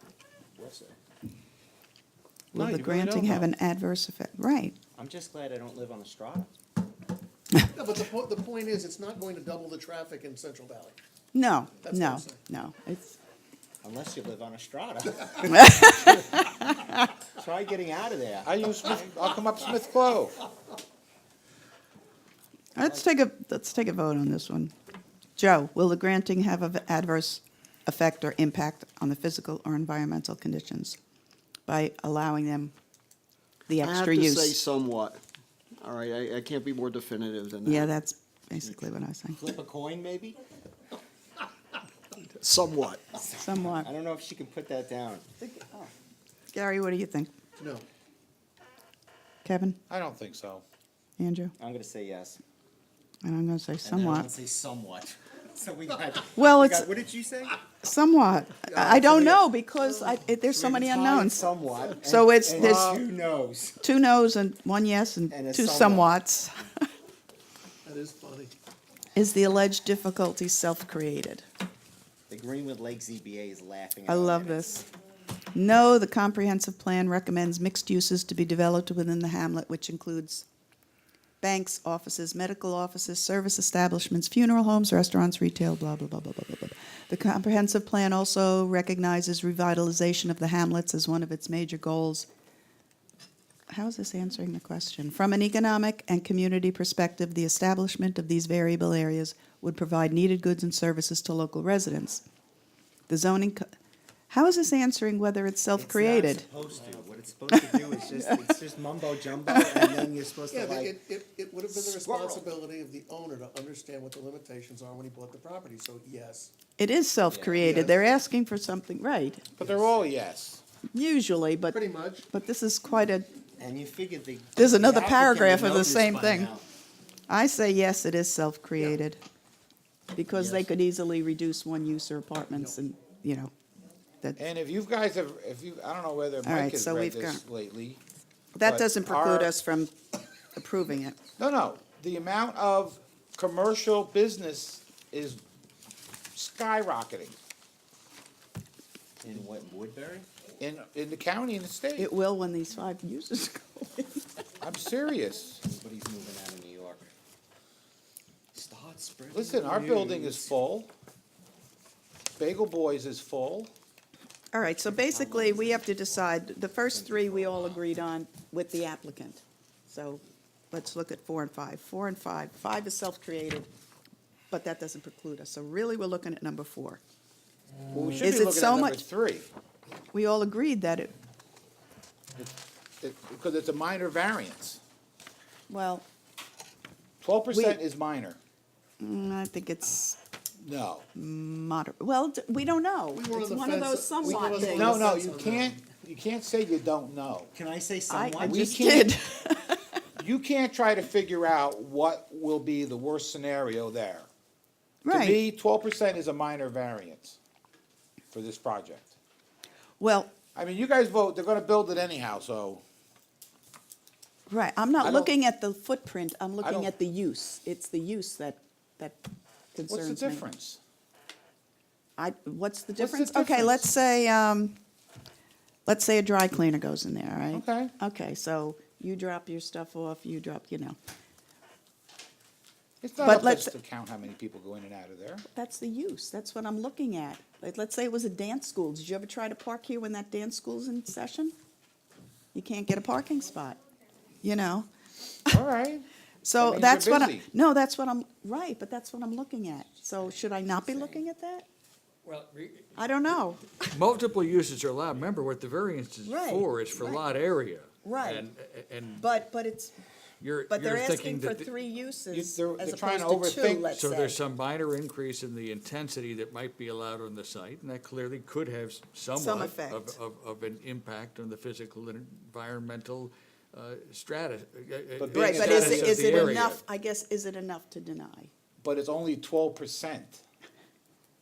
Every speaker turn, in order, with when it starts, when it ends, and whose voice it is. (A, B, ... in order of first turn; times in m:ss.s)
0:00.6-0:01.0 A
0:02.5-0:04.8 B
0:02.5-0:03.5 C
0:05.0-0:06.5 A
0:07.8-0:11.0 D
0:11.3-0:13.2 B
0:11.8-0:12.4 D
0:13.8-0:15.9 A
0:15.5-0:17.1 B
0:17.4-0:18.5 A
0:18.4-0:20.4 C
0:22.8-0:24.7 B
0:25.4-0:31.0 B
0:31.7-0:32.7 B
0:33.7-0:34.6 B
0:33.8-0:35.2 E
0:35.8-0:37.9 E
0:37.6-0:39.4 B
0:39.3-0:40.4 A
0:42.4-0:43.0 E
0:43.1-0:45.3 A
0:43.4-0:43.9 B
0:45.4-0:45.9 B
0:46.5-0:47.3 B
0:47.6-0:47.9 D
0:49.4-0:49.8 B
0:49.9-0:50.6 C
0:51.2-0:51.5 B
0:51.6-0:52.4 A
0:53.2-0:54.3 B
0:53.8-0:57.6 A
0:56.4-0:56.9 B
0:57.8-1:03.0 B
0:58.6-1:00.2 D
1:00.5-1:03.8 A
1:02.6-1:03.0 C
1:03.8-1:06.7 B
1:05.3-1:06.2 A
1:07.8-1:08.6 D
1:09.2-1:11.4 B
1:12.3-1:14.8 A
1:14.1-1:14.9 B
1:15.5-1:20.5 B
1:21.4-1:32.3 B
1:33.7-1:42.2 B
1:43.1-1:43.7 B
1:44.3-1:46.4 B
1:45.8-1:51.0 A
1:46.7-1:47.3 D
1:47.5-1:48.4 B
1:50.5-1:56.5 D
1:51.7-1:52.5 A
1:56.8-1:59.5 B
1:57.3-1:57.9 A
1:57.6-1:57.9 D
1:59.6-2:00.6 C
1:59.6-2:00.1 A
2:00.9-2:03.3 B
2:01.7-2:02.3 D
2:03.6-2:06.6 A
2:04.6-2:06.6 B
2:07.3-2:09.2 B
2:10.2-2:13.5 B
2:10.3-2:10.7 A
2:14.4-2:18.0 C
2:16.4-2:17.4 B
2:18.6-2:20.0 B
2:18.6-2:19.5 C
2:20.6-2:21.2 B
2:21.4-2:25.4 C
2:26.4-2:27.4 C
2:29.2-2:30.3 A
2:30.6-2:32.1 C
2:32.0-2:34.2 B
2:34.6-2:35.6 C
2:35.6-2:37.1 A
2:38.5-2:40.5 A
2:39.3-2:40.9 C
2:42.4-2:43.7 C
2:44.5-2:53.7 B
2:45.1-2:46.1 A
2:46.9-2:47.8 A
2:54.5-2:57.0 B
2:57.9-2:59.5 C
2:58.2-2:59.0 B
3:00.1-3:01.1 B
3:02.4-3:04.8 C
3:05.7-3:06.1 B
3:07.2-3:08.4 C
3:07.5-3:07.8 B
3:09.0-3:10.2 B
3:10.6-3:11.1 C
3:11.2-3:15.0 B
3:13.1-3:15.9 D
3:14.2-3:17.5 C
3:17.5-3:19.0 A
3:18.1-3:19.8 B
3:18.4-3:19.1 C
3:20.2-3:24.3 C
3:25.0-3:25.4 B
3:25.1-3:27.4 C
3:28.3-3:29.2 C
3:30.0-3:30.3 B
3:30.6-3:32.8 C
3:34.5-3:39.2 B
3:35.0-3:35.3 C
3:36.6-3:36.9 C
3:39.7-3:40.5 B
3:39.9-3:40.8 C
3:42.2-3:44.8 B
3:43.0-3:43.9 C
3:45.9-3:51.0 B
3:47.5-3:47.9 C
3:53.0-3:55.4 C
3:53.2-3:53.7 B
3:55.5-4:01.5 B
4:02.5-4:03.8 B
4:04.4-4:04.9 B
4:05.5-4:06.1 C
4:06.4-4:11.7 B
4:06.6-4:07.5 C
4:10.8-4:11.2 A
4:12.2-4:12.9 F
4:13.0-4:14.0 B
4:13.9-4:19.2 F
4:16.2-4:17.2 B
4:18.0-4:18.5 B
4:19.2-4:19.9 B
4:20.4-4:21.7 F
4:20.7-4:24.4 B
4:22.3-4:23.9 C
4:23.9-4:36.8 F
4:29.3-4:30.2 B
4:35.2-4:36.7 C
4:35.3-4:38.5 B
4:38.8-4:40.4 C